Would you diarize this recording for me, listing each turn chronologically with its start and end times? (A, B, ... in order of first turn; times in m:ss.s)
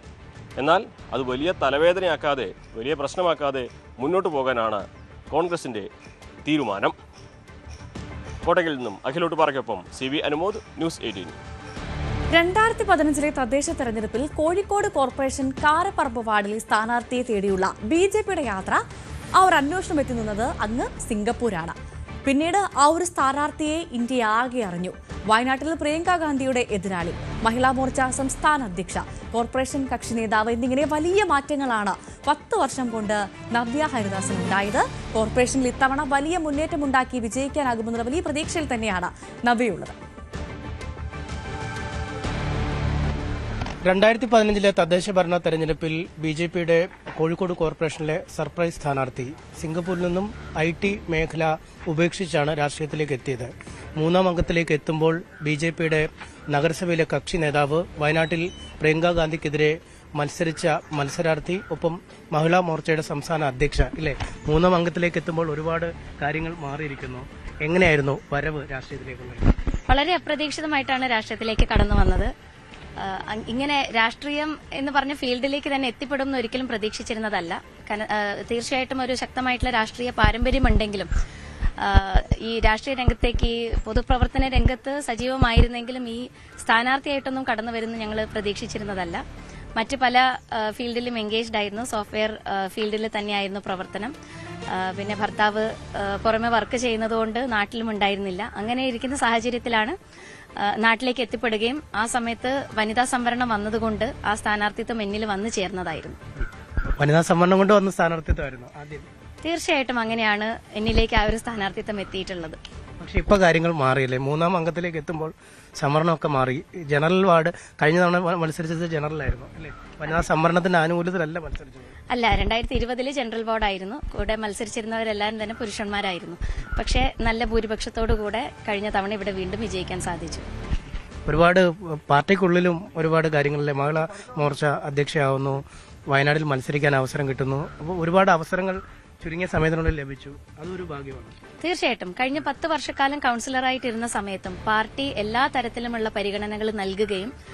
0:00.6-0:05.9 A
0:06.4-0:06.9 A
0:08.4-0:11.4 A
0:12.3-0:18.8 B
0:19.4-0:21.7 B
0:22.2-0:40.0 B
0:43.8-1:09.5 C
1:09.9-1:12.3 D
1:13.0-1:21.1 D
1:21.8-1:29.2 D
1:29.8-1:34.1 D
1:34.7-1:39.9 D
1:40.6-1:46.2 D
1:47.0-1:49.1 C
1:49.4-1:52.6 D
1:53.0-2:01.9 C
2:02.1-2:10.4 D
2:11.3-2:21.3 C
2:21.6-2:27.3 D